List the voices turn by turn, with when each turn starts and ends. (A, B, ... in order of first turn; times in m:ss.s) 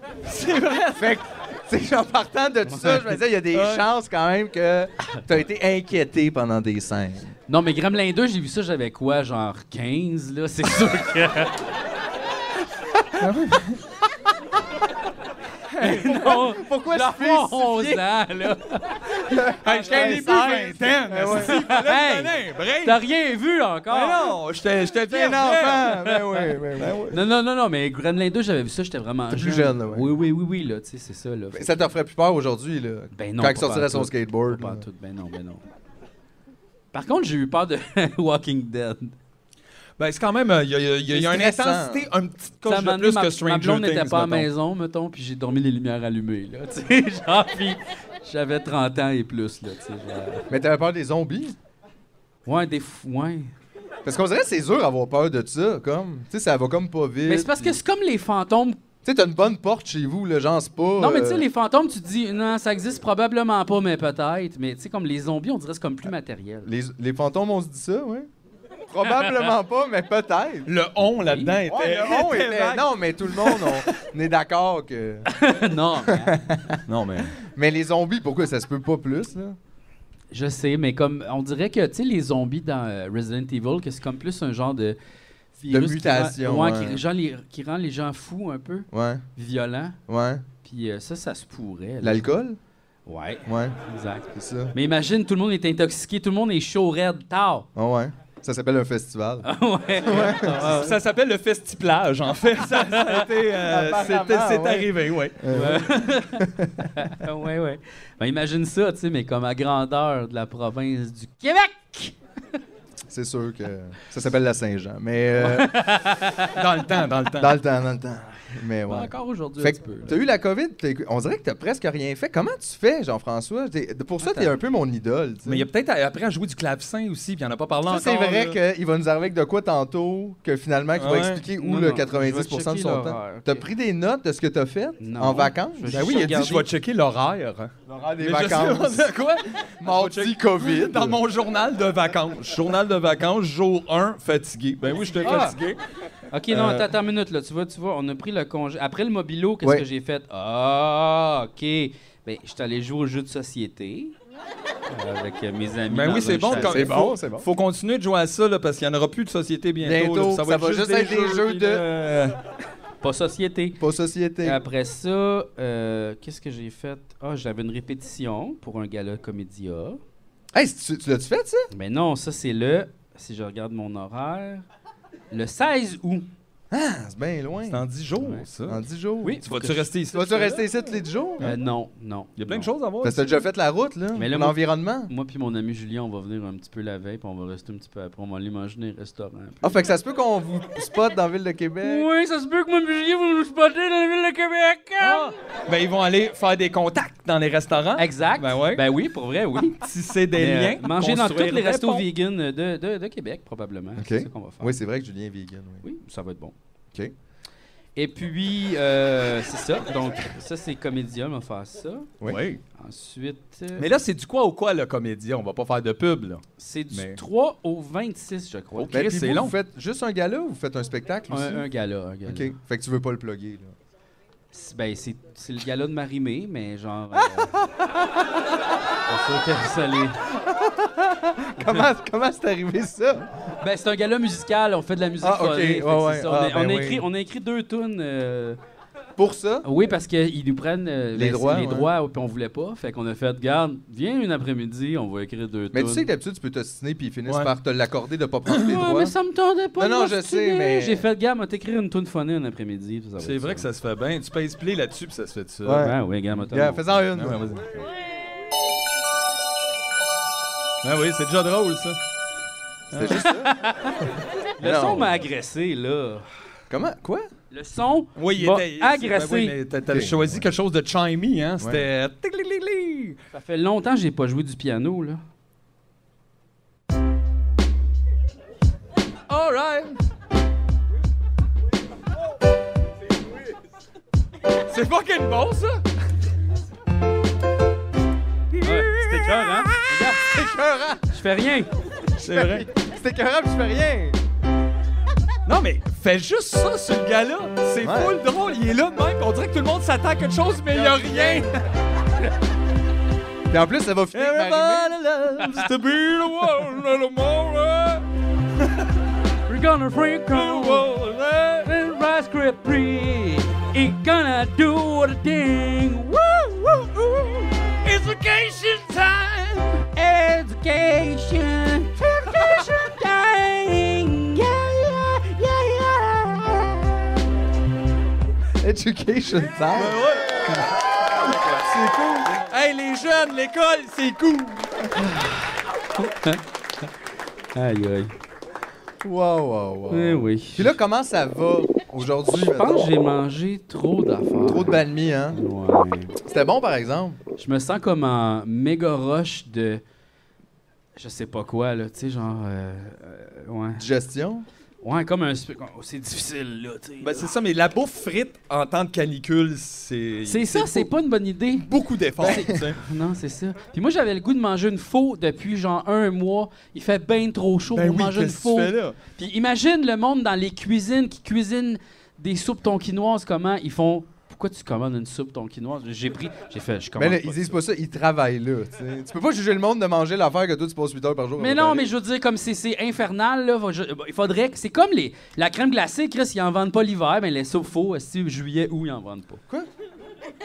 0:00.2-0:01.2 A
0:01.0-0:07.3 B
0:02.7-0:03.1 C
0:03.5-0:03.9 A
0:07.5-0:11.6 C
0:13.2-0:13.8 A
0:15.7-0:16.2 A
0:15.8-0:19.4 C
0:15.8-0:18.0 B
0:19.3-0:21.6 B
0:19.6-0:23.0 A
0:21.3-0:24.3 C
0:23.9-0:26.0 A
0:25.1-0:27.0 B
0:26.0-0:26.5 C
0:26.8-0:27.2 A
0:27.1-0:31.9 C
0:29.3-0:30.1 B
0:31.5-0:34.8 B
0:33.1-0:35.6 C
0:36.9-0:39.1 C
0:40.0-0:44.5 A
0:41.1-0:42.1 B
0:42.6-0:50.4 C
0:50.5-0:51.5 B
0:52.4-0:53.5 C
0:54.0-0:57.8 B
0:57.2-0:58.8 C
0:59.0-1:01.4 B
1:01.0-1:06.7 C
1:06.6-1:08.3 B
1:08.9-1:10.7 B
1:09.2-1:09.4 C
1:10.7-1:13.8 A
1:11.2-1:11.6 C
1:11.6-1:15.3 B
1:15.3-1:16.4 C
1:16.0-1:16.8 B
1:16.9-1:17.3 A
1:17.4-1:19.6 B
1:20.3-1:25.0 C
1:25.6-1:30.0 C
1:25.7-1:27.0 B
1:28.9-1:29.2 B
1:30.1-1:30.4 B
1:30.6-1:32.3 C
1:32.0-1:32.6 B
1:33.1-1:37.7 C
1:33.4-1:33.8 B
1:34.3-1:34.7 B
1:37.7-1:39.5 B
1:39.4-1:41.0 C
1:40.0-1:40.7 B
1:40.2-1:45.7 A
1:42.8-1:47.0 B
1:45.5-1:52.1 C
1:53.1-1:55.8 B
1:55.4-1:56.6 C
1:56.5-1:57.6 A
1:57.3-2:05.7 B
1:58.9-2:00.2 C
2:04.2-2:04.5 C
2:05.4-2:08.6 A
2:07.8-2:16.2 B
2:11.0-2:11.4 A
2:11.6-2:13.7 C
2:15.0-2:16.7 C
2:15.9-2:25.8 A
2:17.9-2:19.1 B
2:19.8-2:21.2 B
2:25.2-2:25.6 C
2:26.3-2:34.1 C
2:26.5-2:26.8 A
2:34.9-2:36.9 C
2:35.9-2:42.4 A
2:36.5-2:37.5 B
2:39.8-2:41.9 B
2:43.0-2:43.8 C
2:43.8-2:44.6 B
2:44.4-2:50.0 C
2:50.5-2:51.7 B
2:51.7-2:54.6 C
2:55.3-2:56.3 C
2:56.7-2:57.8 B
2:57.6-2:58.8 A
2:58.2-2:58.4 C
2:58.6-2:59.4 B
2:59.2-2:59.9 C
2:59.4-3:00.7 A
3:00.1-3:01.5 B
3:01.4-3:02.7 C
3:02.4-3:03.4 A
3:03.0-3:05.1 B
3:04.1-3:09.8 C
3:09.6-3:12.1 B
3:11.8-3:15.3 C
3:15.0-3:18.8 A
3:18.0-3:19.8 C
3:19.8-3:22.0 A
3:20.3-3:24.8 C
3:24.0-3:25.8 B
3:25.8-3:26.5 C
3:28.0-3:32.1 C
3:32.2-3:32.6 A
3:32.8-3:33.9 C
3:33.8-3:37.2 A
3:36.6-3:39.0 C
3:38.8-3:39.5 A
3:38.9-3:41.7 B
3:41.3-3:42.5 C
3:42.2-3:43.7 B
3:44.5-3:47.6 C
3:47.2-3:47.9 B
3:49.1-3:50.2 C
3:50.4-3:53.2 B
3:53.6-3:58.6 C
3:55.2-3:57.0 B
3:59.2-3:59.6 B
3:59.6-4:06.0 C
4:01.1-4:01.9 B
4:05.7-4:09.1 B
4:08.6-4:13.6 C
4:09.8-4:11.0 B
4:13.2-4:15.9 A
4:15.6-4:15.9 B
4:15.7-4:16.8 C
4:16.5-4:17.4 B
4:17.1-4:17.9 A
4:20.8-4:22.0 A
4:22.9-4:23.2 A
4:22.9-4:23.5 B
4:23.1-4:26.2 C
4:24.6-4:25.1 B
4:26.7-4:27.3 B
4:27.5-4:29.5 C
4:28.2-4:33.2 A
4:29.9-4:30.4 B
4:31.6-4:31.8 B
4:33.3-4:35.2 C
4:39.3-4:40.0 A
4:44.7-4:45.8 A
4:48.5-4:50.1 A
4:48.6-4:50.3 C
4:50.2-4:51.2 B
4:51.1-4:51.7 C
4:52.2-4:52.6 A
4:52.2-4:54.2 B
4:55.4-5:01.5 A
4:57.8-4:58.2 B
5:00.7-5:01.5 B
5:03.5-5:05.0 B
5:04.1-5:08.0 A
5:05.4-5:05.6 C
5:09.5-5:10.9 C
5:10.3-5:11.7 A
5:11.6-5:17.7 C
5:17.8-5:19.8 A
5:19.8-5:27.1 C
5:28.6-5:30.0 B
5:29.7-5:30.4 A
5:31.2-5:31.6 A
5:31.6-5:32.3 B
5:32.2-5:34.7 A
5:35.0-5:36.9 C
5:37.5-5:38.1 C
5:39.0-5:42.9 B
5:39.9-5:40.8 C
5:42.3-5:46.1 C
5:44.4-5:45.4 B
5:46.2-5:47.2 B
5:47.4-5:49.8 C
5:51.0-5:53.8 C
5:53.8-5:54.4 B
5:54.8-5:57.3 C
5:57.0-6:00.9 A
6:00.2-6:01.7 C
6:01.6-6:02.8 A
6:02.2-6:17.6 C
6:02.2-6:02.5 B
6:07.7-6:09.0 A
6:17.0-6:21.9 B
6:21.4-6:29.4 C